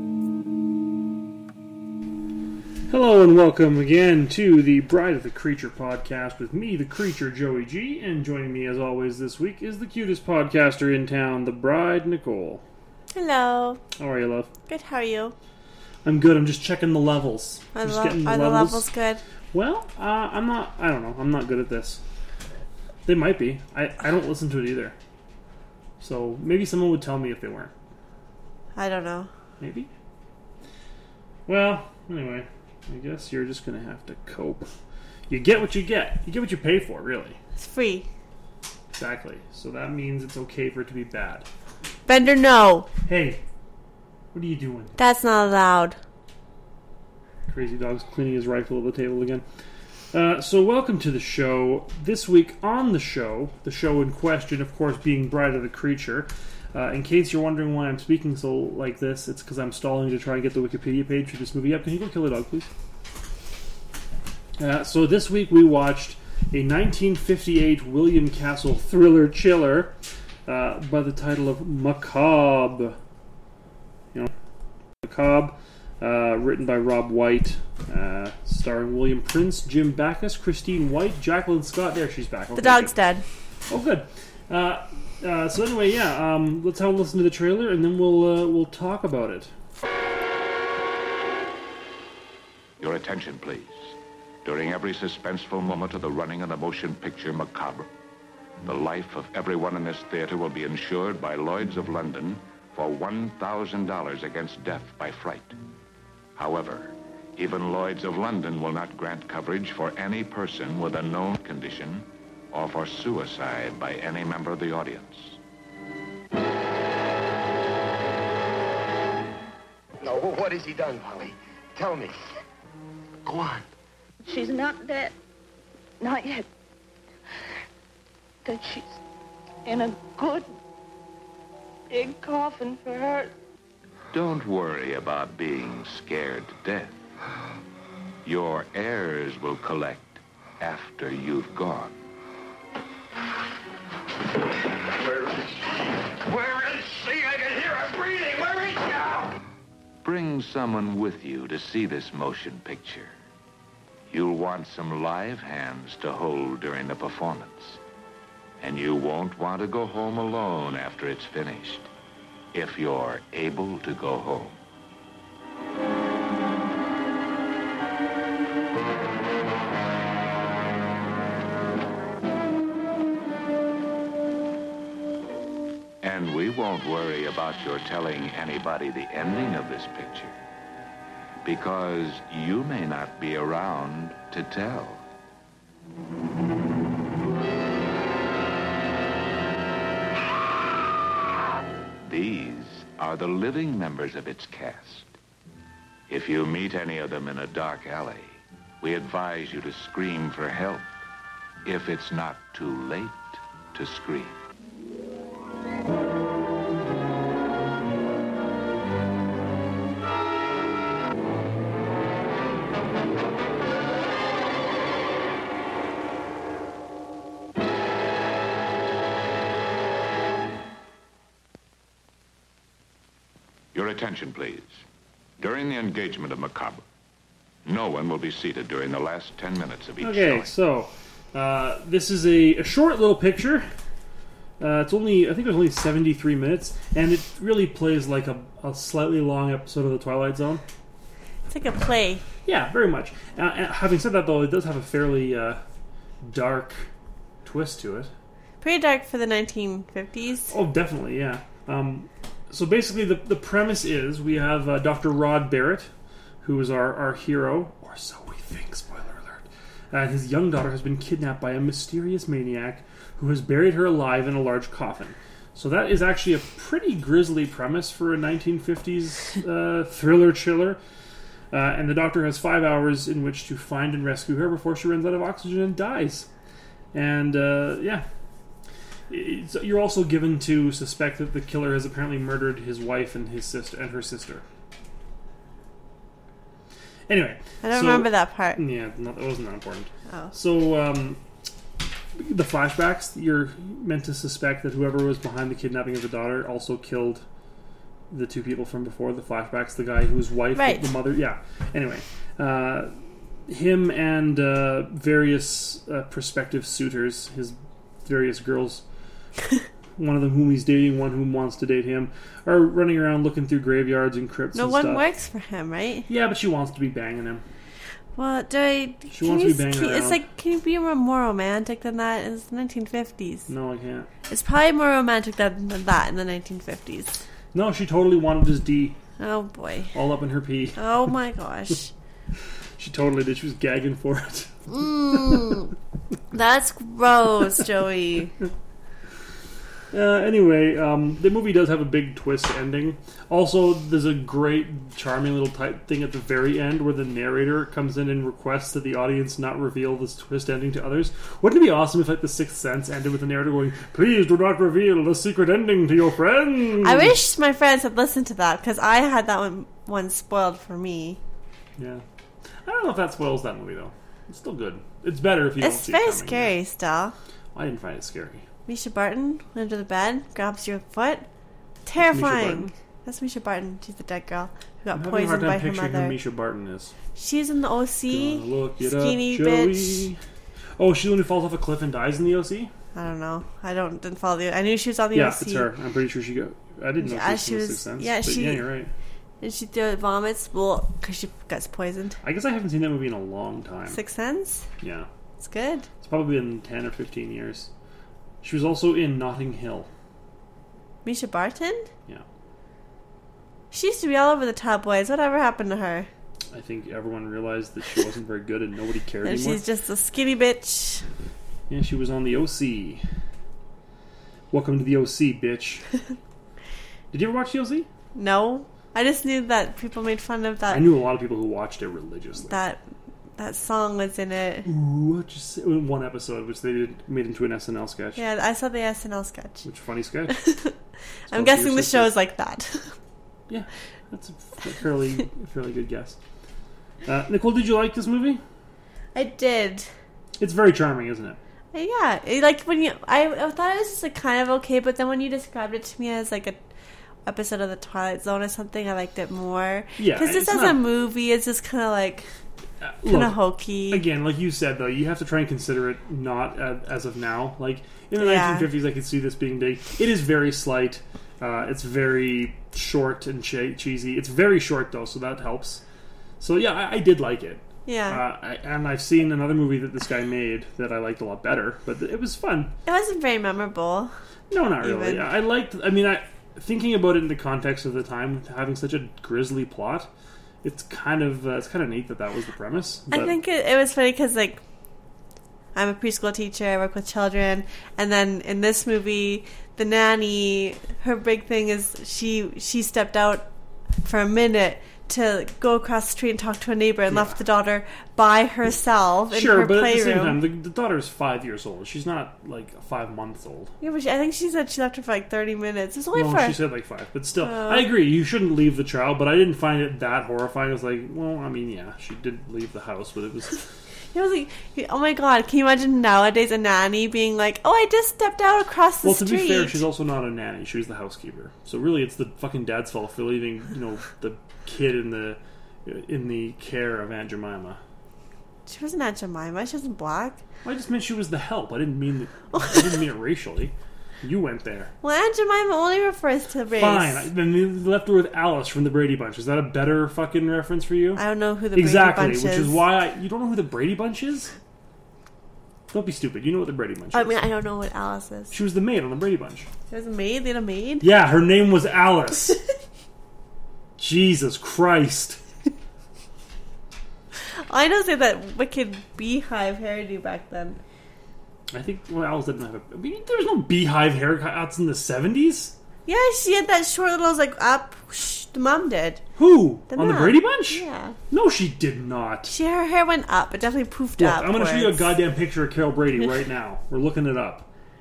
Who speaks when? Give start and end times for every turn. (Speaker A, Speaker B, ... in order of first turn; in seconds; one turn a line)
Speaker A: 2.9-12.6
Speaker B: 13.1-13.8
Speaker A: 14.0-14.5
Speaker B: 14.7-15.3
Speaker A: 16.0-18.9
Speaker B: 17.7-19.2
Speaker A: 19.5-22.0
Speaker A: 23.1-25.0
Speaker A: 26.0-27.7
Speaker B: 28.8-29.3
Speaker A: 29.6-29.9
Speaker A: 31.5-34.7
Speaker A: 35.3-37.4
Speaker B: 37.6-38.1
Speaker A: 38.9-41.5
Speaker B: 42.1-42.9
Speaker A: 43.1-43.4
Speaker A: 44.3-45.0
Speaker B: 45.0-46.0
Speaker A: 47.5-49.4
Speaker A: 50.1-62.7
Speaker A: 64.6-69.9
Speaker A: 70.5-73.0
Speaker A: 75.0-83.0
Speaker B: 82.5-83.2
Speaker A: 83.7-89.5
Speaker C: 92.8-97.9
Speaker C: 98.7-105.6
Speaker C: 106.4-115.4
Speaker D: 120.0-122.1
Speaker D: 123.3-123.6
Speaker E: 124.2-125.2
Speaker E: 126.0-126.5
Speaker E: 128.4-129.0
Speaker E: 129.7-130.5
Speaker E: 131.9-133.3
Speaker C: 134.1-137.0
Speaker C: 138.2-141.9
Speaker D: 146.3-149.2
Speaker C: 150.0-153.2
Speaker C: 154.1-157.8
Speaker C: 158.6-161.9
Speaker C: 162.5-164.6
Speaker C: 176.0-180.4
Speaker C: 181.4-185.1
Speaker C: 192.0-195.2
Speaker C: 196.1-200.9
Speaker C: 201.7-204.4
Speaker C: 223.7-224.8
Speaker C: 225.4-226.8
Speaker C: 227.7-230.5
Speaker A: 230.0-233.7
Speaker A: 234.6-240.6
Speaker B: 241.5-242.2
Speaker A: 242.4-245.6
Speaker A: 246.2-246.9
Speaker A: 247.4-248.1
Speaker B: 248.6-250.5
Speaker A: 250.5-255.9
Speaker A: 256.4-270.8
Speaker A: 271.5-276.3
Speaker A: 276.9-278.1
Speaker A: 279.1-284.4
Speaker A: 287.1-291.2
Speaker B: 287.6-288.6
Speaker B: 290.1-290.3
Speaker A: 292.2-297.2
Speaker A: 298.1-302.9
Speaker B: 300.6-300.9
Speaker A: 303.5-308.8
Speaker A: 310.0-315.1
Speaker B: 314.5-316.1
Speaker A: 316.1-317.4
Speaker B: 318.2-323.5
Speaker A: 319.1-320.2
Speaker A: 323.5-324.1
Speaker B: 324.3-327.2
Speaker A: 327.5-329.0
Speaker B: 329.2-329.9
Speaker A: 329.9-330.9
Speaker B: 330.8-331.9
Speaker A: 332.8-335.6
Speaker B: 334.8-335.7
Speaker B: 336.3-338.4
Speaker A: 339.9-357.3
Speaker B: 356.8-361.2
Speaker A: 361.8-362.0
Speaker A: 362.6-366.5
Speaker B: 365.6-367.1
Speaker A: 367.6-368.4
Speaker B: 368.7-371.3
Speaker B: 371.9-376.2
Speaker A: 372.0-372.8
Speaker A: 374.9-376.9
Speaker B: 377.1-380.1
Speaker A: 378.1-380.2
Speaker A: 380.8-382.7
Speaker B: 382.9-385.7
Speaker A: 385.1-388.9
Speaker B: 387.0-388.7
Speaker B: 389.4-392.2
Speaker A: 392.2-394.0
Speaker B: 393.9-394.7
Speaker A: 394.8-395.1
Speaker B: 395.4-395.9
Speaker A: 396.0-397.7
Speaker A: 398.4-399.9
Speaker B: 401.0-401.9
Speaker B: 403.7-406.1
Speaker A: 406.5-409.6
Speaker B: 409.2-411.1
Speaker A: 411.7-413.0
Speaker A: 414.5-415.9
Speaker A: 417.1-417.9
Speaker B: 418.1-420.9
Speaker A: 420.7-422.6
Speaker B: 422.4-422.8
Speaker B: 423.4-424.7
Speaker A: 424.7-428.2
Speaker B: 428.2-429.7
Speaker A: 429.6-430.4
Speaker B: 430.3-430.8
Speaker A: 431.3-432.1
Speaker B: 431.3-432.9
Speaker A: 433.5-436.2
Speaker A: 437.1-438.4
Speaker B: 439.1-439.9
Speaker A: 440.4-441.4
Speaker B: 441.7-446.7
Speaker B: 447.2-452.3
Speaker A: 450.0-450.8
Speaker A: 452.8-453.4
Speaker B: 453.1-454.0
Speaker A: 453.9-465.8
Speaker B: 458.2-458.7
Speaker A: 466.4-472.7
Speaker B: 467.9-468.2
Speaker B: 472.9-474.1
Speaker A: 474.5-480.1
Speaker B: 474.8-475.3
Speaker A: 480.6-483.4
Speaker B: 483.1-484.6
Speaker B: 485.8-493.5
Speaker B: 494.0-500.4
Speaker A: 497.1-497.4
Speaker A: 499.3-503.7
Speaker B: 503.8-506.6
Speaker A: 506.1-513.6
Speaker B: 507.4-507.9
Speaker B: 514.1-519.8
Speaker A: 519.0-527.8
Speaker B: 528.7-530.4
Speaker A: 530.6-534.9
Speaker B: 532.6-532.9
Speaker B: 535.0-537.3
Speaker A: 536.8-541.2
Speaker B: 541.1-542.8
Speaker A: 541.8-544.5
Speaker A: 545.9-547.4
Speaker B: 547.1-548.5
Speaker A: 548.5-549.7
Speaker B: 549.9-551.1
Speaker A: 551.0-552.6
Speaker A: 554.0-555.4
Speaker B: 557.5-560.8
Speaker A: 561.7-565.8
Speaker B: 566.0-569.2
Speaker A: 569.4-572.5
Speaker B: 569.9-571.2
Speaker B: 572.5-575.1
Speaker A: 574.2-577.7